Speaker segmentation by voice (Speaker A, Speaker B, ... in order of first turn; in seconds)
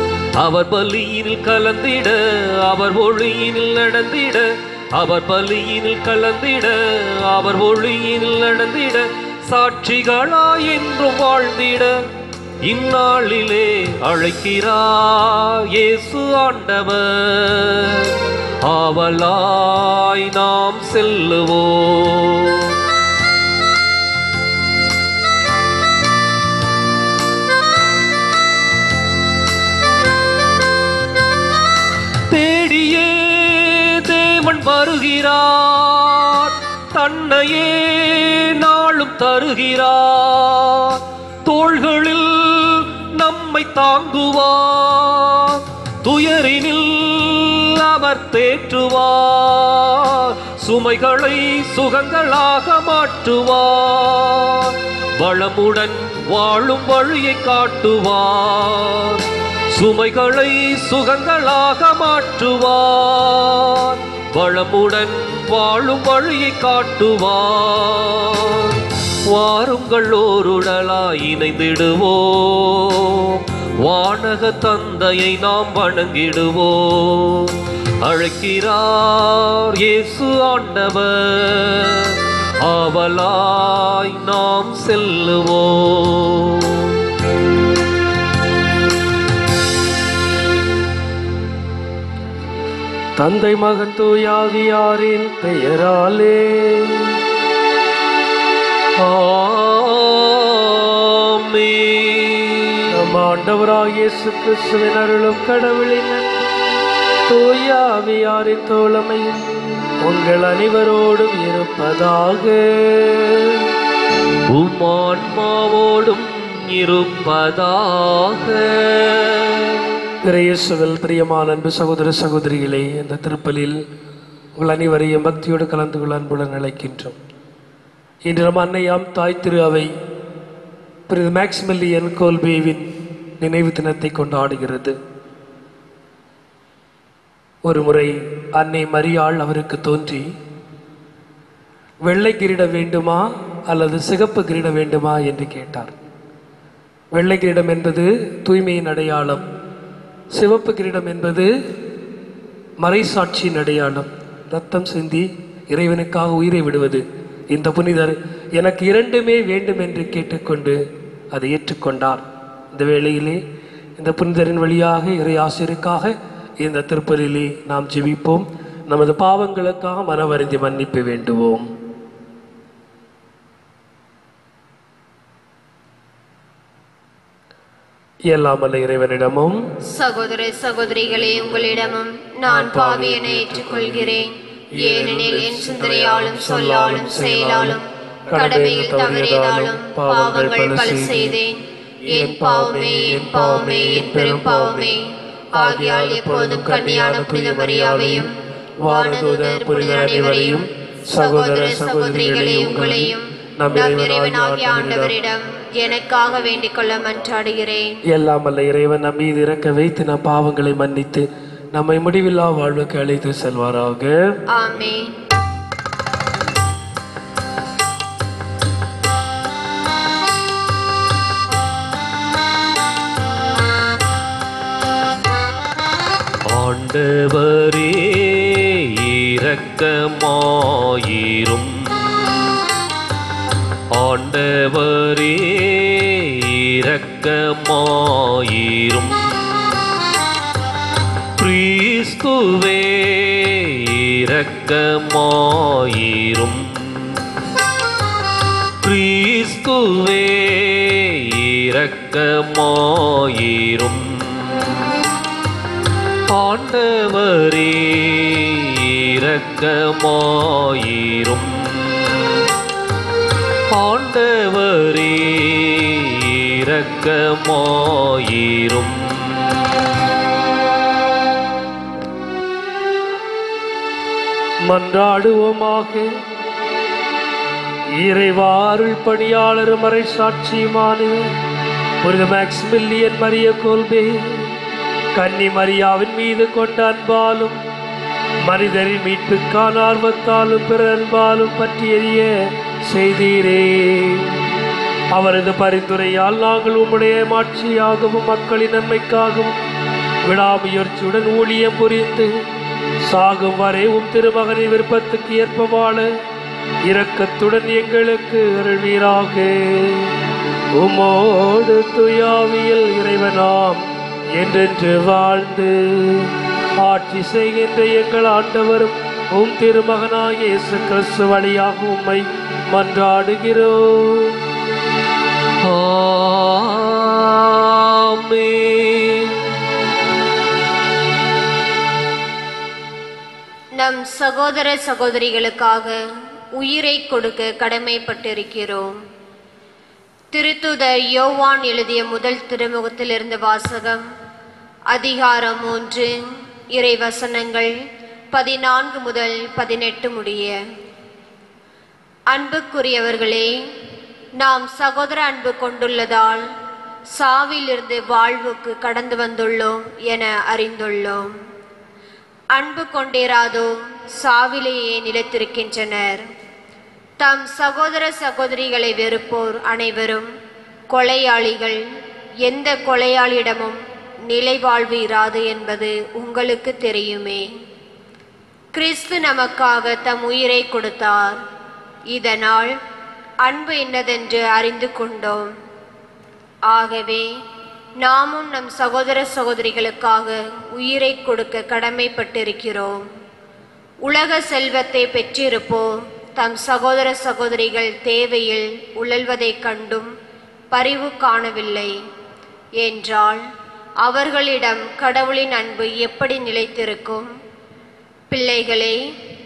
Speaker A: 0.4-11.9, 12.6-22.8, 32.3-59.2, 59.7-87.0, 99.0-102.8, 114.5-119.8, 226.5-232.6, 233.9-239.8, 241.4-247.2, 248.8-254.7, 256.3-262.4, 263.7-269.7, 325.6-329.4
Speaker B: 93.2-97.2, 102.9-106.3, 107.3-109.4, 110.0-113.7, 120.2-123.8, 124.6-127.2, 128.3-129.9, 131.1-132.9, 133.4-135.0, 137.7-140.3, 142.1-145.9, 147.1-149.4, 150.3-151.5, 152.8-160.8, 161.3-163.4, 164.0-171.7, 178.3-179.6, 182.5-184.2, 184.8-187.8, 188.3-191.3, 192.1-194.9, 195.5-198.3, 198.8-205.1, 208.1-214.2, 274.7-276.1, 278.0-281.3, 282.0-284.4, 285.1-287.6, 288.5-292.4, 292.9-294.4, 295.1-299.6, 300.2-302.3, 303.1-306.1, 306.9-310.1, 310.8-313.8, 314.4-324.4
Speaker C: 179.9-198.3, 198.8-208.0, 214.5-215.2, 333.8-336.0, 336.6-339.0, 340.3-344.1, 344.9-346.1, 346.7-347.7, 348.3-350.6, 352.3-353.6, 354.4-356.5, 357.2-361.3, 362.6-366.3, 367.2-370.3, 370.9-371.8, 372.4-377.5, 378.7-381.4, 382.1-382.8, 383.4-385.5, 386.7-387.3, 388.0-393.1, 394.1-400.1, 400.7-402.0, 402.8-403.4, 404.0-407.3, 408.3-409.0